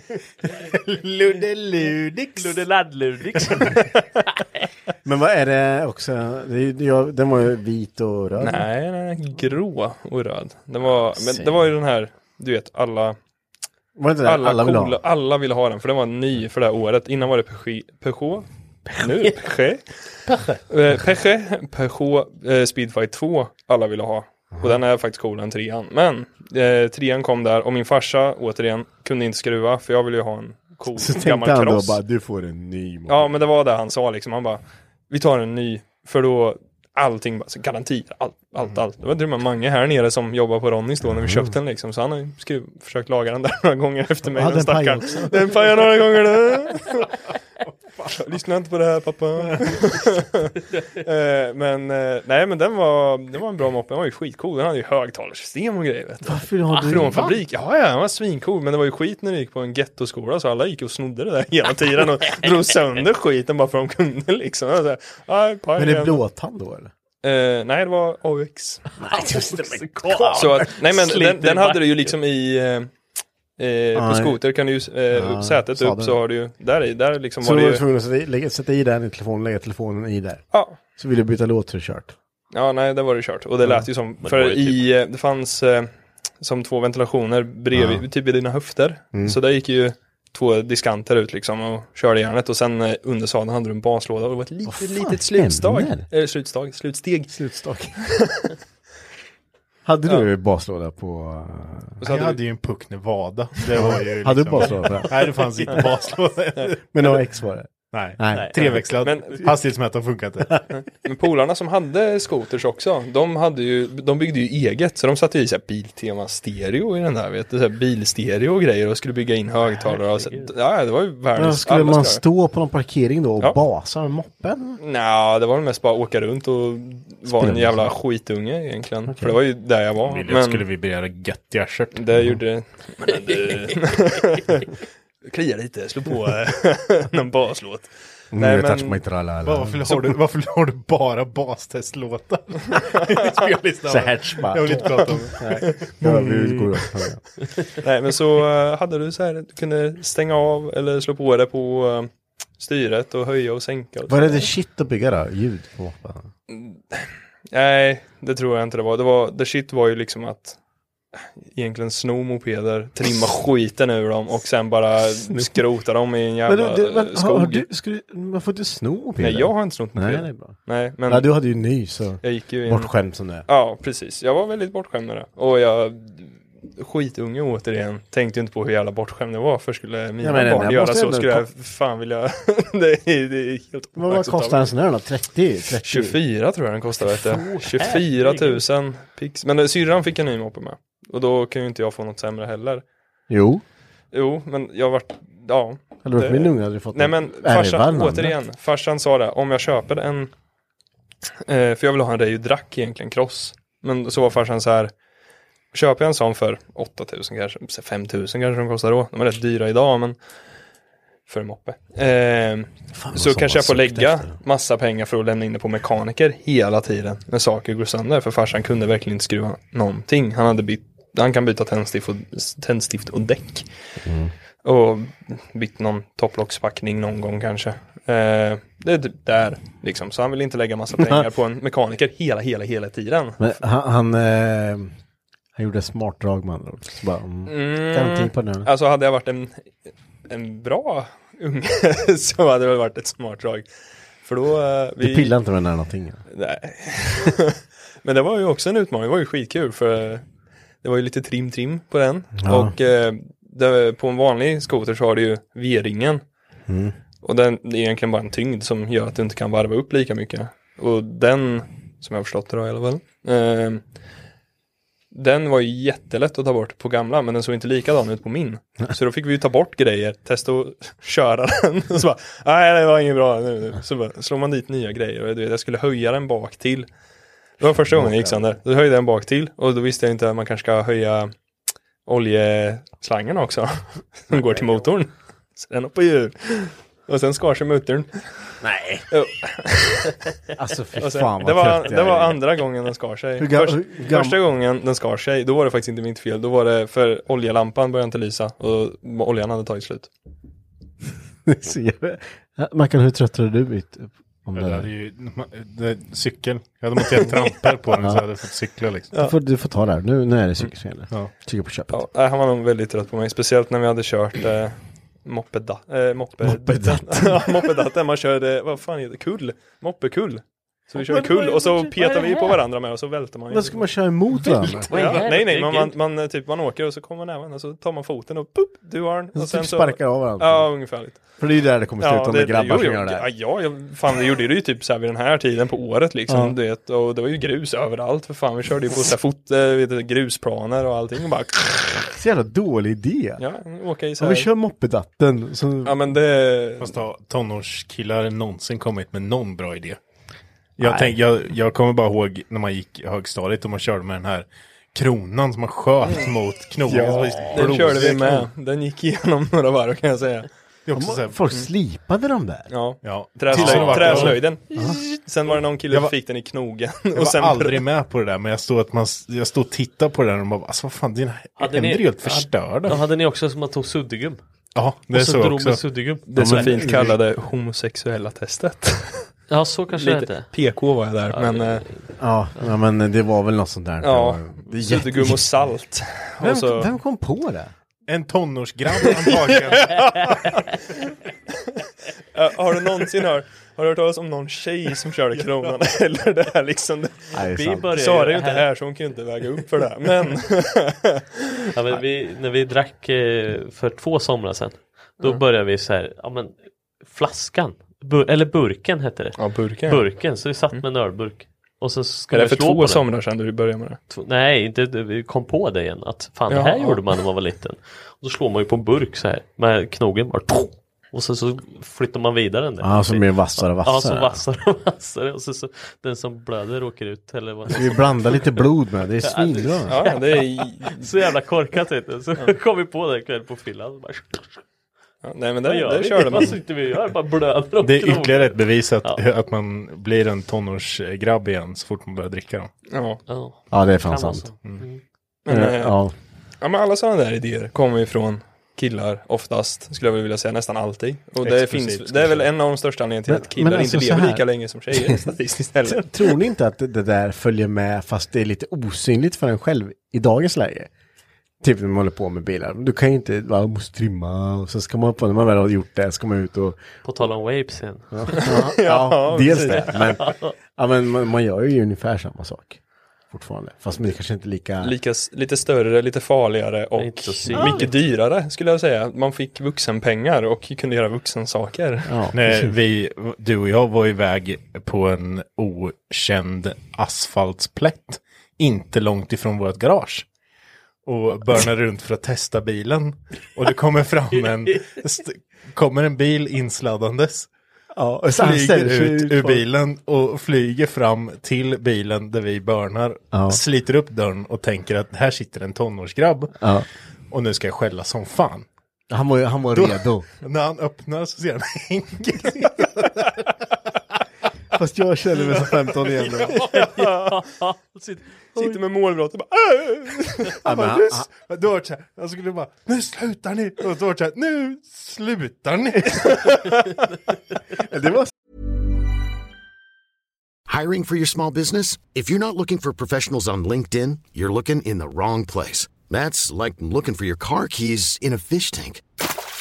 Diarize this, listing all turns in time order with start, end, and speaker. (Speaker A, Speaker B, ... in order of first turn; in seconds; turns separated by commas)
Speaker A: 0.4-2.6, Speaker B: 2.4-3.8, Speaker C: 5.0-8.7, Speaker D: 8.4-13.2, Speaker C: 11.2-11.5, Speaker C: 13.9-15.0, Speaker D: 14.2-18.4, Speaker D: 19.0-19.9, Speaker D: 20.7-32.0, Speaker C: 24.5-24.8, Speaker C: 30.9-33.4, Speaker D: 33.1-47.1, Speaker C: 41.2-41.5, Speaker C: 44.3-45.6, Speaker D: 48.0-66.2, Speaker C: 56.2-57.4, Speaker C: 65.8-66.9, Speaker D: 67.2-68.8, Speaker C: 69.0-70.7, Speaker B: 69.0-72.1, Speaker D: 70.3-72.9, Speaker D: 73.6-77.8, Speaker C: 73.9-74.4, Speaker C: 75.1-76.2, Speaker C: 77.4-80.4, Speaker D: 80.5-80.8, Speaker C: 81.0-82.1, Speaker D: 82.5-97.3, Speaker B: 84.2-84.8, Speaker C: 94.7-96.0, Speaker C: 97.3-98.0, Speaker D: 98.0-98.5, Speaker C: 99.8-102.0, Speaker D: 102.0-102.4, Speaker A: 102.0-106.7, Speaker C: 103.8-105.8, Speaker C: 106.9-108.9, Speaker A: 107.9-110.7, Speaker D: 109.0-109.4, Speaker D: 110.8-122.2, Speaker B: 119.7-120.5, Speaker C: 121.3-124.8, Speaker D: 124.8-130.6, Speaker C: 127.2-127.9, Speaker C: 129.1-129.3, Speaker A: 130.0-132.2, Speaker D: 131.9-134.7, Speaker D: 135.2-139.0, Speaker C: 138.3-139.9, Speaker A: 139.4-146.5, Speaker C: 143.9-147.2, Speaker D: 144.7-146.3, Speaker D: 147.8-154.5, Speaker C: 154.1-156.3, Speaker D: 156.5-160.6, Speaker D: 161.4-167.7, Speaker C: 165.3-165.5, Speaker C: 166.5-173.4, Speaker D: 169.2-171.3, Speaker D: 172.2-172.9, Speaker D: 173.5-184.7, Speaker C: 180.2-181.4, Speaker C: 183.9-186.2, Speaker D: 185.8-192.8, Speaker B: 187.1-188.6, Speaker C: 193.3-193.6, Speaker D: 194.1-200.3, Speaker C: 196.0-198.3, Speaker D: 201.5-204.9, Speaker D: 205.7-210.2, Speaker D: 211.3-223.7, Speaker C: 212.9-214.3, Speaker C: 224.0-224.3, Speaker D: 224.6-233.5, Speaker C: 233.4-234.9, Speaker C: 235.5-238.7, Speaker D: 237.5-239.7, Speaker D: 240.3-243.7, Speaker D: 244.2-245.3, Speaker C: 245.0-246.2, Speaker D: 246.3-250.2, Speaker D: 250.8-256.2, Speaker C: 252.4-252.7, Speaker C: 256.7-256.9, Speaker D: 257.2-263.8, Speaker D: 265.1-276.9, Speaker D: 277.6-281.3, Speaker C: 277.6-278.5, Speaker D: 282.1-288.5, Speaker C: 284.3-284.9, Speaker C: 288.6-289.1, Speaker D: 289.1-290.1, Speaker C: 290.6-292.4, Speaker D: 291.0-300.1, Speaker C: 293.4-294.4, Speaker C: 301.4-304.9, Speaker A: 304.6-309.1, Speaker D: 307.2-307.5, Speaker C: 308.0-308.2, Speaker C: 309.1-312.0, Speaker D: 311.9-323.8, Speaker C: 316.4-317.7, Speaker B: 321.1-322.6, Speaker C: 323.5-325.2, Speaker B: 324.4-325.9, Speaker D: 324.9-331.3, Speaker C: 329.3-333.3, Speaker D: 332.0-341.9, Speaker C: 336.3-336.6, Speaker C: 342.1-343.4, Speaker D: 343.4-344.5, Speaker C: 344.2-346.0, Speaker D: 345.8-347.0, Speaker A: 346.8-350.0, Speaker A: 350.8-358.4, Speaker C: 350.8-351.1, Speaker C: 356.8-358.0, Speaker D: 357.5-360.5, Speaker A: 360.9-361.4, Speaker C: 360.9-362.7, Speaker D: 362.7-367.8, Speaker A: 363.0-364.6, Speaker B: 363.5-364.4, Speaker C: 363.6-365.0, Speaker A: 367.1-373.0, Speaker B: 371.6-374.4, Speaker A: 374.7-375.8, Speaker B: 375.1-376.9, Speaker D: 376.3-379.3, Speaker C: 376.4-377.2, Speaker B: 379.5-380.5, Speaker D: 379.9-381.8, Speaker B: 381.3-382.0, Speaker C: 382.2-385.5, Speaker D: 384.0-386.9, Speaker C: 386.4-387.7, Speaker A: 388.1-390.0, Speaker D: 389.0-390.7, Speaker D: 392.3-397.3, Speaker C: 397.3-398.0, Speaker B: 397.5-398.7, Speaker D: 397.9-401.4, Speaker B: 401.7-406.5, Speaker B: 407.0-413.0, Speaker D: 409.4-410.0, Speaker D: 412.3-414.0, Speaker B: 414.1-428.6, Speaker D: 416.5-417.0, Speaker C: 422.8-424.4, Speaker C: 427.7-430.0, Speaker B: 429.2-434.6, Speaker D: 429.9-431.1, Speaker D: 435.2-436.6, Speaker B: 435.6-439.2, Speaker A: 437.8-442.7, Speaker D: 442.9-443.2, Speaker B: 443.3-445.0, Speaker C: 443.7-444.5, Speaker D: 445.4-445.9, Speaker C: 445.5-446.1, Speaker D: 446.6-456.3, Speaker A: 451.4-452.5, Speaker C: 453.3-455.2, Speaker C: 455.8-460.9, Speaker C: 461.6-466.8, Speaker B: 467.0-468.5, Speaker C: 468.1-472.8, Speaker D: 468.4-470.2, Speaker B: 469.7-470.5, Speaker C: 473.3-474.9, Speaker D: 474.8-482.1, Speaker B: 477.0-477.9, Speaker C: 477.6-477.9, Speaker C: 482.1-482.7, Speaker A: 482.3-490.2, Speaker A: 491.0-497.5, Speaker C: 497.9-499.6, Speaker A: 498.4-506.5, Speaker C: 503.3-503.6, Speaker C: 506.6-506.9, Speaker A: 507.3-508.7, Speaker C: 509.1-510.2, Speaker A: 509.7-513.3, Speaker C: 514.7-516.5, Speaker B: 516.5-518.8, Speaker D: 516.7-517.4, Speaker D: 518.5-520.8, Speaker C: 520.6-521.3, Speaker A: 520.9-526.6, Speaker D: 526.3-526.7, Speaker C: 527.8-528.3, Speaker E: 530.7-539.0